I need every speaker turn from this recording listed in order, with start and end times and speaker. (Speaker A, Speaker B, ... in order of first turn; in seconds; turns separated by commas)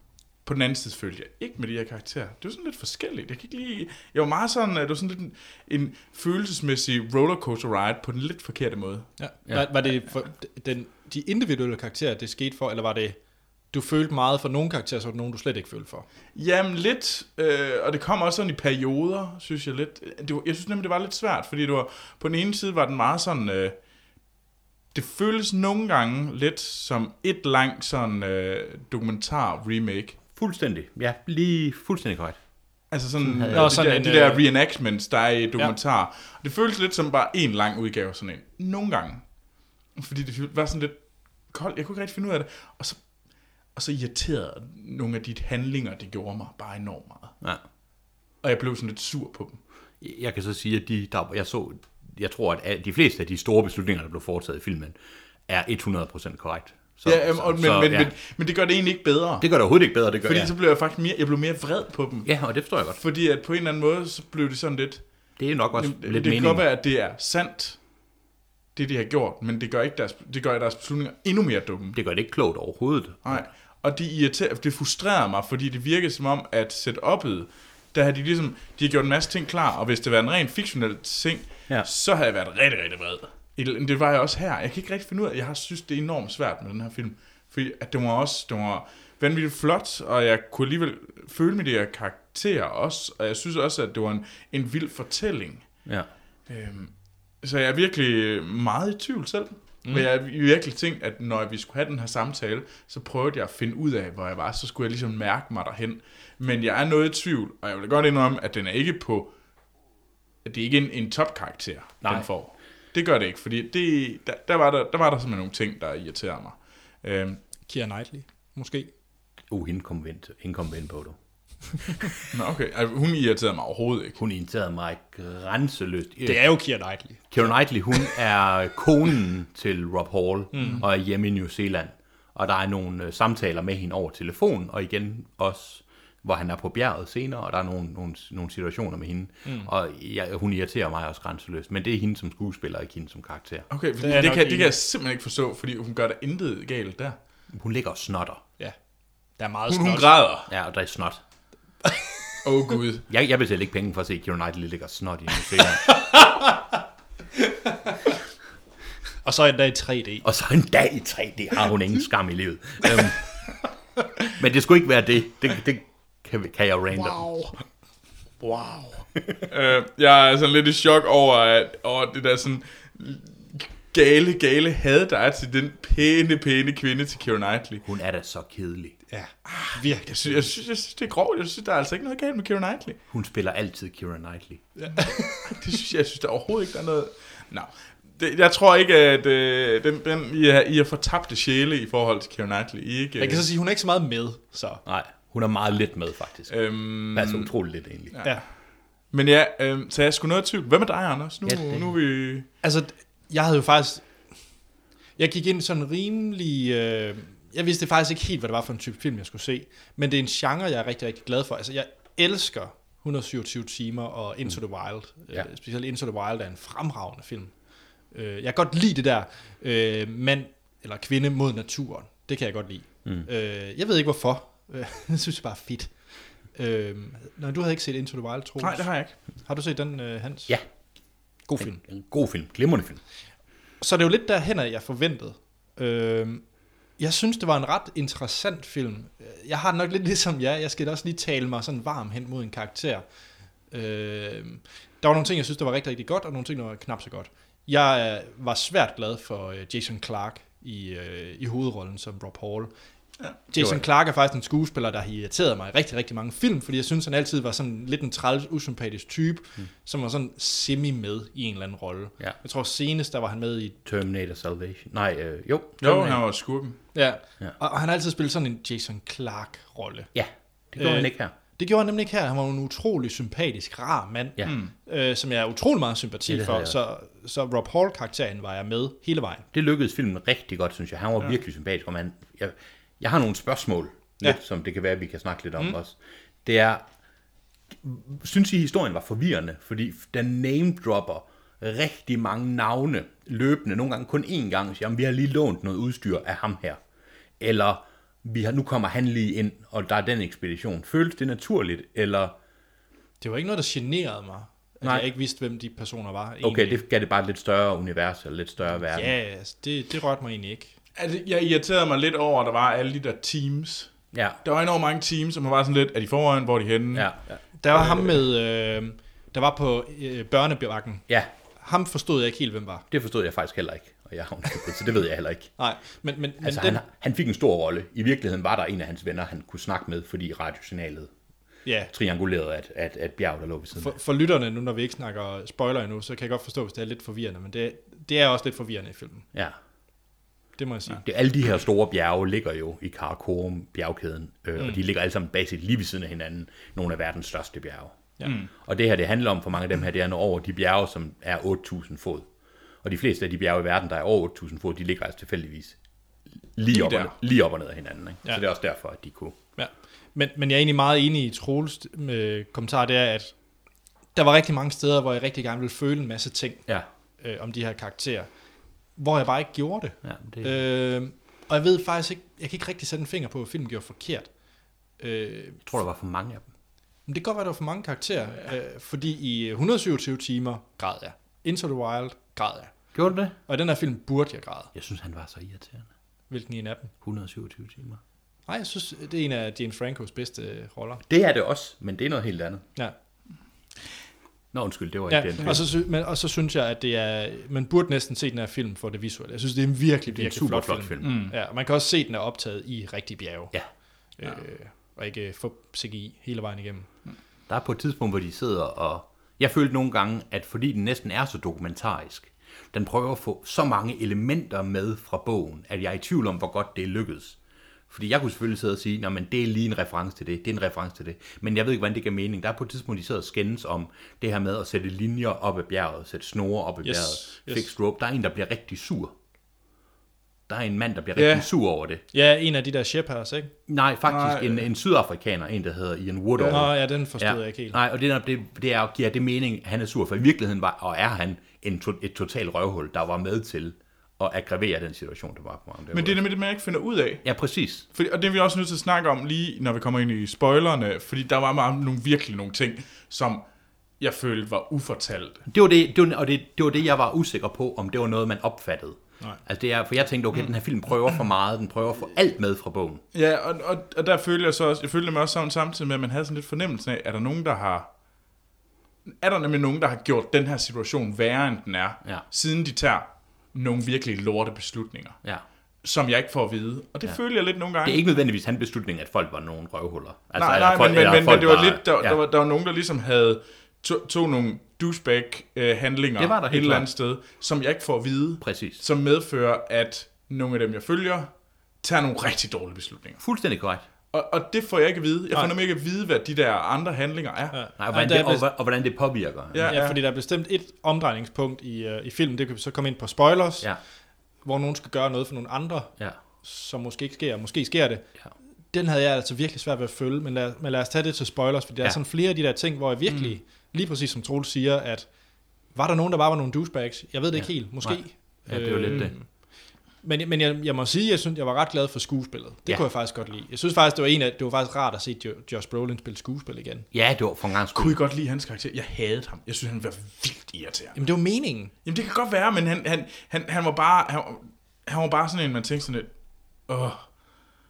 Speaker A: 0.4-9.1, Speaker B: 9.2-13.2, Speaker C: 9.5-9.8, Speaker B: 13.7-16.1, Speaker A: 16.4-23.8, Speaker A: 24.9-30.2, Speaker C: 30.3-32.4, Speaker A: 32.9-39.3, Speaker C: 33.2-33.8, Speaker B: 33.5-34.5, Speaker A: 40.0-43.1, Speaker A: 43.7-47.4, Speaker A: 48.4-49.6, Speaker C: 50.0-55.0, Speaker C: 55.5-58.1, Speaker A: 57.0-59.5, Speaker C: 59.4-60.5, Speaker A: 60.2-62.3, Speaker C: 62.2-63.0, Speaker A: 63.0-65.0, Speaker C: 65.4-66.7, Speaker A: 65.8-67.8, Speaker A: 68.8-72.0, Speaker C: 71.9-73.5, Speaker A: 73.2-95.7, Speaker A: 96.5-109.3, Speaker A: 110.5-117.4, Speaker B: 117.7-118.9, Speaker C: 119.5-121.2, Speaker C: 121.7-122.1, Speaker A: 122.3-124.2, Speaker C: 124.2-143.7, Speaker B: 126.2-128.1, Speaker B: 130.5-130.8, Speaker B: 139.4-139.7, Speaker A: 143.7-147.2, Speaker B: 144.0-144.7, Speaker C: 147.5-148.4, Speaker B: 149.4-150.2, Speaker A: 149.7-150.5, Speaker C: 150.5-151.2, Speaker A: 152.4-153.1, Speaker C: 153.1-156.2, Speaker B: 155.8-156.6, Speaker B: 157.4-158.0, Speaker B: 159.2-160.3, Speaker C: 160.2-163.6, Speaker C: 164.3-167.3, Speaker A: 168.5-168.9, Speaker A: 169.5-177.8, Speaker C: 177.8-179.0, Speaker B: 179.1-180.5, Speaker A: 180.0-183.0, Speaker C: 183.1-184.7, Speaker B: 184.8-185.4, Speaker A: 185.4-193.5, Speaker B: 193.2-194.8, Speaker C: 194.8-198.2, Speaker A: 196.5-197.5, Speaker A: 198.1-198.4, Speaker A: 199.1-202.5, Speaker C: 201.5-201.9, Speaker B: 202.6-204.2, Speaker B: 205.2-217.5, Speaker B: 218.1-225.9, Speaker B: 226.6-230.6, Speaker A: 228.6-229.2, Speaker B: 231.5-231.8, Speaker C: 231.6-233.0, Speaker B: 233.8-236.4, Speaker B: 237.0-243.0, Speaker B: 243.7-252.7, Speaker B: 253.5-263.8, Speaker C: 253.6-253.8, Speaker C: 263.9-266.2, Speaker A: 265.8-266.8, Speaker B: 266.9-270.1, Speaker C: 270.1-271.3, Speaker B: 270.8-279.5, Speaker A: 274.4-274.7, Speaker C: 276.3-276.8, Speaker C: 279.5-286.8, Speaker C: 287.8-296.8, Speaker C: 297.4-302.4, Speaker B: 303.2-306.8, Speaker C: 304.8-305.1, Speaker C: 306.4-309.1, Speaker B: 308.9-310.7, Speaker A: 311.0-317.2, Speaker C: 314.1-314.4, Speaker C: 316.9-317.2, Speaker B: 317.6-321.1, Speaker A: 317.8-318.1, Speaker B: 321.6-322.9, Speaker C: 322.9-325.5, Speaker B: 325.6-326.8, Speaker C: 326.4-331.1, Speaker B: 331.6-331.9, Speaker C: 331.9-334.0, Speaker B: 333.8-339.3, Speaker B: 340.6-341.0, Speaker C: 340.9-348.0, Speaker A: 348.2-348.5, Speaker C: 348.6-352.3, Speaker C: 352.8-355.8, Speaker C: 356.6-359.4, Speaker A: 356.7-357.1, Speaker B: 359.6-363.4, Speaker B: 364.1-366.6, Speaker B: 367.2-368.3, Speaker B: 369.0-374.3, Speaker C: 370.0-370.6, Speaker B: 375.0-375.6, Speaker C: 375.6-376.5, Speaker B: 377.1-382.8, Speaker C: 382.9-383.4, Speaker B: 383.5-384.7, Speaker C: 384.7-385.9, Speaker B: 386.3-386.9, Speaker C: 387.0-388.0, Speaker B: 388.5-391.0, Speaker C: 391.1-392.6, Speaker C: 394.5-395.6, Speaker B: 395.1-403.6, Speaker C: 400.1-401.2, Speaker A: 401.0-401.3, Speaker B: 404.2-406.9, Speaker C: 407.5-417.4, Speaker C: 417.9-429.1, Speaker B: 426.8-427.7, Speaker C: 430.5-432.0, Speaker A: 431.2-431.5, Speaker B: 432.1-433.5, Speaker C: 433.7-446.2, Speaker A: 434.1-434.6, Speaker A: 436.4-436.7, Speaker B: 436.5-437.8, Speaker A: 445.9-447.3, Speaker C: 447.2-447.9, Speaker A: 447.9-453.4, Speaker A: 454.0-455.4, Speaker C: 455.5-463.0, Speaker A: 463.1-467.9, Speaker A: 469.1-475.2, Speaker A: 475.8-478.1, Speaker C: 477.8-482.2, Speaker A: 480.4-493.2, Speaker C: 486.2-486.9, Speaker C: 488.4-488.8, Speaker C: 493.2-493.8, Speaker A: 494.1-497.6, Speaker B: 497.5-498.5, Speaker C: 497.8-499.8, Speaker A: 499.5-500.0, Speaker B: 499.7-503.7, Speaker B: 504.4-508.1, Speaker B: 508.7-515.1, Speaker A: 513.1-513.4, Speaker B: 515.7-526.9, Speaker C: 517.4-519.1, Speaker C: 526.9-528.0, Speaker A: 527.7-531.0, Speaker B: 531.0-531.7, Speaker A: 531.9-536.1, Speaker A: 536.7-537.1